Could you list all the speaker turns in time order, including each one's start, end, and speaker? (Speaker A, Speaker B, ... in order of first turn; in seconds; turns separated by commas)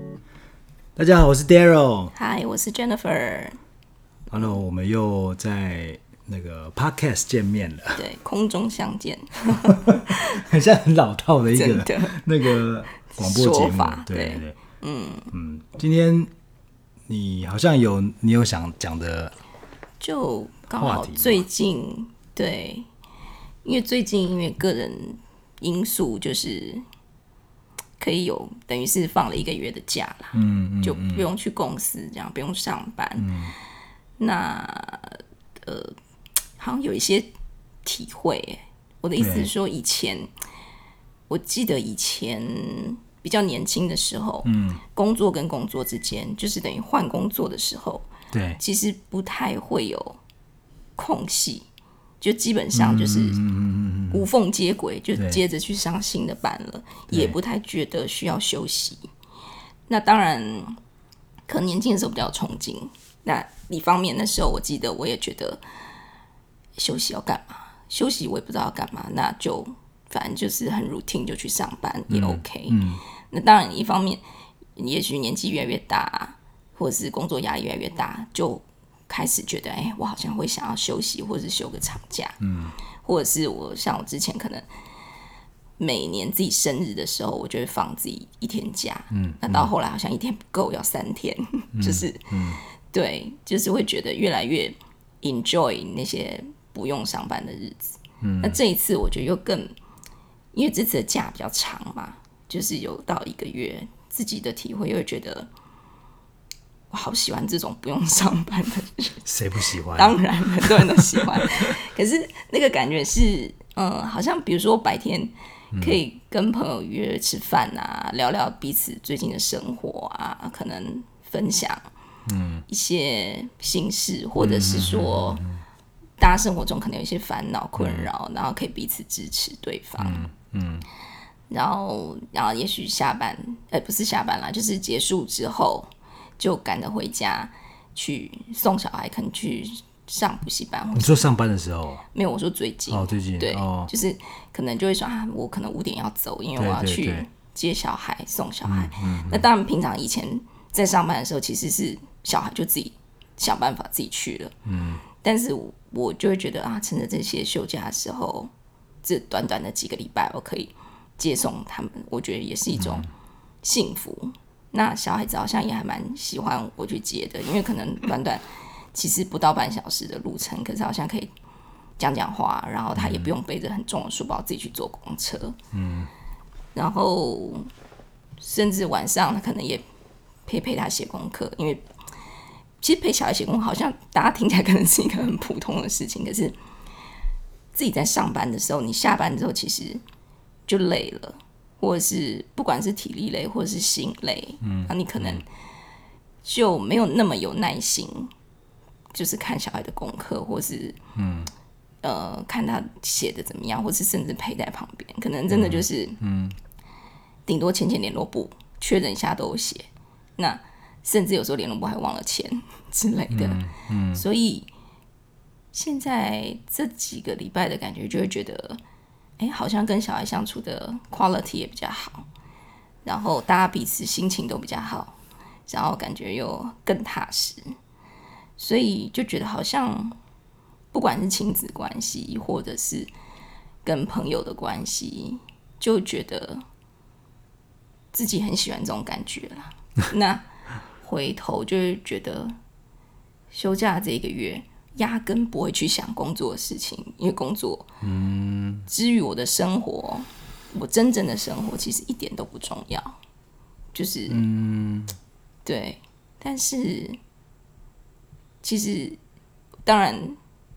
Speaker A: 0.9-2.1, Speaker B: 2.1-3.6, Speaker A: 4.3-8.0, Speaker B: 8.0-10.4, Speaker A: 9.7-14.6, Speaker B: 11.5-15.3, Speaker A: 15.3-16.3, Speaker A: 17.1-19.3, Speaker B: 20.0-22.9, Speaker A: 20.8-21.4, Speaker B: 23.6-26.8, Speaker B: 28.0-33.3, Speaker A: 30.3-31.3, Speaker A: 33.2-33.5, Speaker B: 34.2-36.0, Speaker B: 36.6-37.3, Speaker B: 37.8-40.3, Speaker A: 39.2-39.5, Speaker B: 41.3-48.1, Speaker A: 44.4-44.8, Speaker A: 48.3-48.6, Speaker B: 48.6-50.2, Speaker B: 51.0-51.6, Speaker B: 52.2-53.4, Speaker A: 52.7-54.2, Speaker B: 54.1-59.1, Speaker A: 57.1-57.4, Speaker B: 59.9-60.8, Speaker B: 61.5-65.6, Speaker B: 66.8-74.2, Speaker A: 72.1-73.0, Speaker B: 74.8-82.4, Speaker A: 82.4-82.7, Speaker B: 83.0-84.7, Speaker B: 85.8-99.7, Speaker A: 89.1-89.7, Speaker A: 91.7-92.6, Speaker A: 98.2-98.6, Speaker B: 100.5-105.5, Speaker B: 106.9-109.2, Speaker A: 109.2-110.2, Speaker B: 109.9-121.8, Speaker A: 110.7-111.5, Speaker A: 115.7-116.0, Speaker A: 122.2-122.6, Speaker B: 122.7-125.4, Speaker A: 124.4-125.6, Speaker B: 126.2-130.2, Speaker A: 127.8-128.1, Speaker A: 130.0-130.8, Speaker B: 131.5-141.3, Speaker A: 140.9-142.0, Speaker B: 142.1-154.5, Speaker A: 142.9-143.9, Speaker A: 146.6-147.3, Speaker A: 148.7-149.4, Speaker A: 154.6-155.0, Speaker B: 155.1-158.5, Speaker B: 159.0-163.1, Speaker A: 162.8-163.1, Speaker B: 163.6-171.3, Speaker B: 172.0-175.6, Speaker A: 172.9-173.3, Speaker A: 175.7-176.1, Speaker B: 176.7-177.7, Speaker B: 178.4-179.8, Speaker B: 180.5-181.8, Speaker B: 182.8-186.6, Speaker B: 187.7-190.0, Speaker B: 190.7-195.4, Speaker A: 194.6-195.4, Speaker B: 196.4-198.3, Speaker B: 199.1-201.0, Speaker A: 201.2-201.5, Speaker B: 202.0-206.2, Speaker A: 205.5-206.6, Speaker B: 207.5-209.9, Speaker B: 210.4-214.7, Speaker A: 213.3-214.2, Speaker B: 215.7-218.8, Speaker B: 219.4-222.3, Speaker B: 223.0-225.2, Speaker B: 225.7-227.7, Speaker B: 228.6-230.2, Speaker B: 230.9-233.1, Speaker B: 233.8-236.6, Speaker B: 238.1-240.4, Speaker B: 241.0-242.6, Speaker B: 243.5-247.9, Speaker A: 248.0-248.9, Speaker B: 248.9-253.2, Speaker B: 253.9-254.4, Speaker A: 254.3-255.1, Speaker B: 255.7-257.2, Speaker B: 258.6-259.2, Speaker B: 259.8-260.4